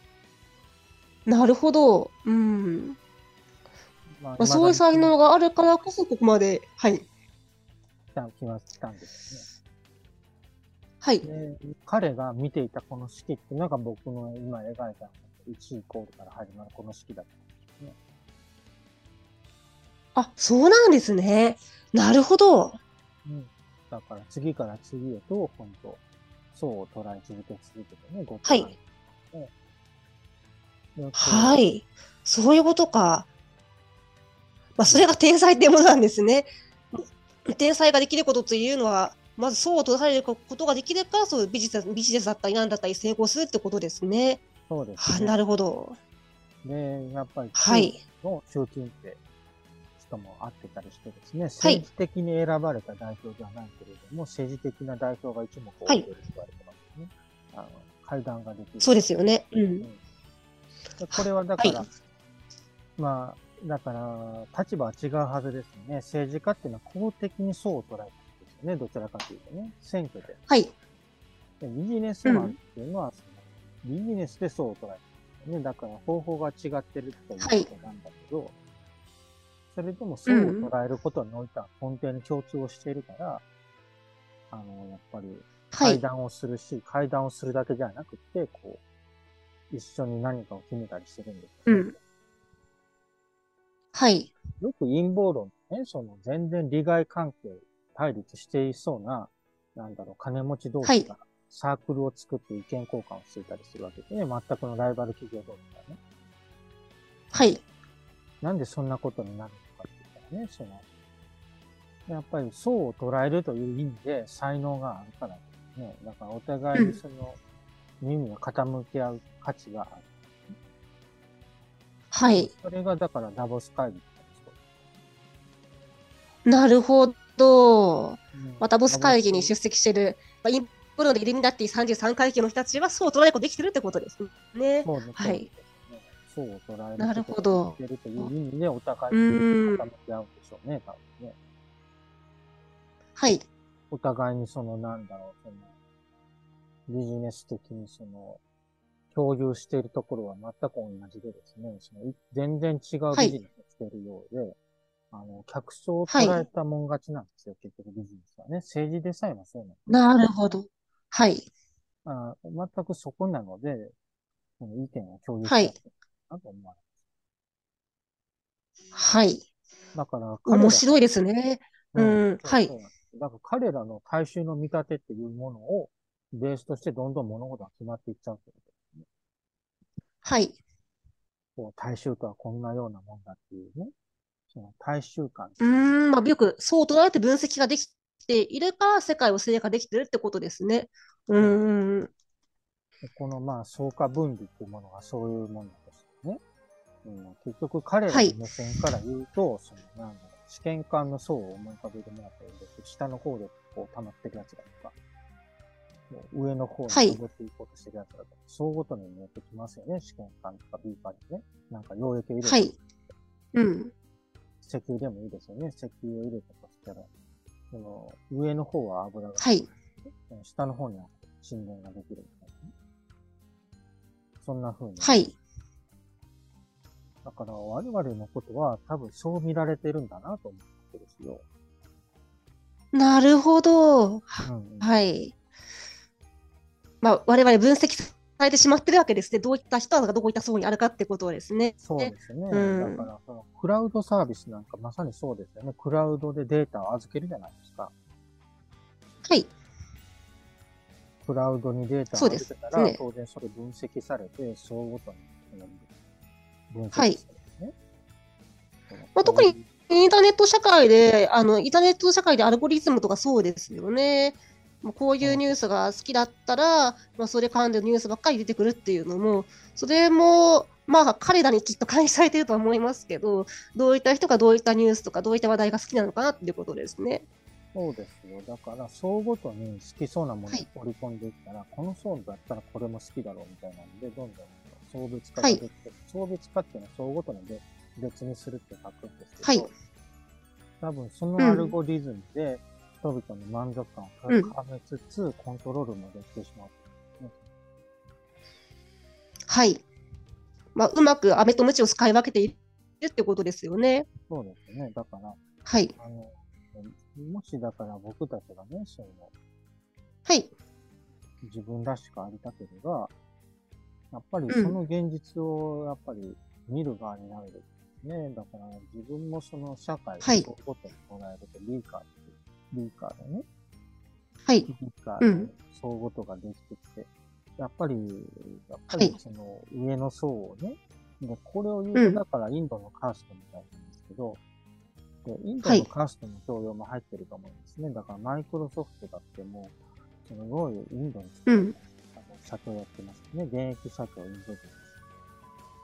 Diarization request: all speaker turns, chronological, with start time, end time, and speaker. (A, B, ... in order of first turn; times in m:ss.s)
0:01.3-0:03.0 A
0:04.2-0:05.2 B
0:04.4-0:07.0 A
0:08.1-0:09.5 B
0:11.2-0:18.0 B
0:20.2-0:22.8 A
0:23.2-0:26.0 B
0:26.5-0:29.5 B
0:31.0-0:31.6 B
0:31.2-0:33.3 A
0:34.8-0:44.4 A
0:34.8-0:35.1 B
0:44.7-0:45.4 B
0:45.0-0:46.0 A
0:46.6-0:49.2 B
0:47.6-0:48.0 A
0:50.0-0:59.0 B
0:58.8-0:59.9 A
1:01.0-1:01.9 B
1:01.2-1:01.8 A
1:03.0-1:10.4 B
1:11.6-1:18.5 B
1:12.2-1:12.6 A
1:17.4-1:17.7 A
1:19.7-1:23.4 B
1:20.3-1:20.7 A
1:24.5-1:28.8 B
1:25.7-1:26.0 A
1:29.7-1:32.0 B
1:31.7-1:31.9 A
1:33.9-1:34.3 A
1:34.6-1:46.0 B
1:40.8-1:41.1 A
1:47.3-1:47.6 A
1:48.4-1:50.8 B
1:52.1-1:57.4 B
1:58.0-2:00.6 B
2:02.1-2:02.5 A
2:02.3-2:04.6 B
2:06.5-2:15.5 A
2:08.3-2:09.6 B
2:14.8-2:21.4 B
2:17.0-2:18.3 A
2:19.1-2:19.9 A
2:23.2-2:23.4 A
2:23.9-2:25.7 B
2:26.9-2:28.4 B
2:29.1-2:34.6 B
2:35.1-2:39.9 B
2:36.1-2:36.4 A
2:39.9-2:41.5 A
2:42.0-2:43.9 B
2:44.6-2:46.8 B
2:45.4-2:45.7 A
2:48.9-2:49.4 A
2:49.9-2:50.9 B
2:50.5-2:52.7 A
2:51.9-2:59.0 B
3:00.2-3:00.6 A
3:01.6-3:03.9 B
3:04.5-3:06.0 B
3:05.6-3:12.1 A
3:11.4-3:11.6 B
3:13.0-3:16.4 B
3:17.0-3:24.9 B
3:18.1-3:18.4 A
3:26.1-3:32.8 B
3:26.9-3:27.2 A
3:32.4-3:32.7 A
3:33.5-3:33.9 A
3:34.6-3:37.1 B
3:37.7-3:42.7 B
3:39.4-3:39.7 A
3:44.4-3:45.3 B
3:45.0-3:45.3 A
3:47.2-3:51.4 B
3:52.9-3:55.3 A
3:54.4-3:54.9 B
3:57.0-4:03.1 A
4:01.8-4:07.9 B
4:09.2-4:09.5 A
4:11.2-4:15.9 B
4:12.2-4:13.0 A
4:16.7-4:17.7 B
4:16.9-4:17.2 A
4:18.9-4:19.7 B
4:19.2-4:37.2 A
4:25.2-4:25.6 B
4:37.7-4:49.7 B
4:49.4-4:49.7 A
4:50.8-4:57.4 B
4:51.4-4:51.7 A
4:59.5-4:59.8 A
5:00.8-5:04.1 A
5:04.3-5:05.4 B
5:05.6-5:05.9 A
5:06.0-5:09.3 B
5:11.4-5:13.1 B
5:14.1-5:23.5 B
5:14.5-5:14.8 A
5:24.7-5:34.4 B
5:25.2-5:25.5 A
5:32.0-5:32.2 A
5:35.2-5:44.9 B
5:41.5-5:41.8 A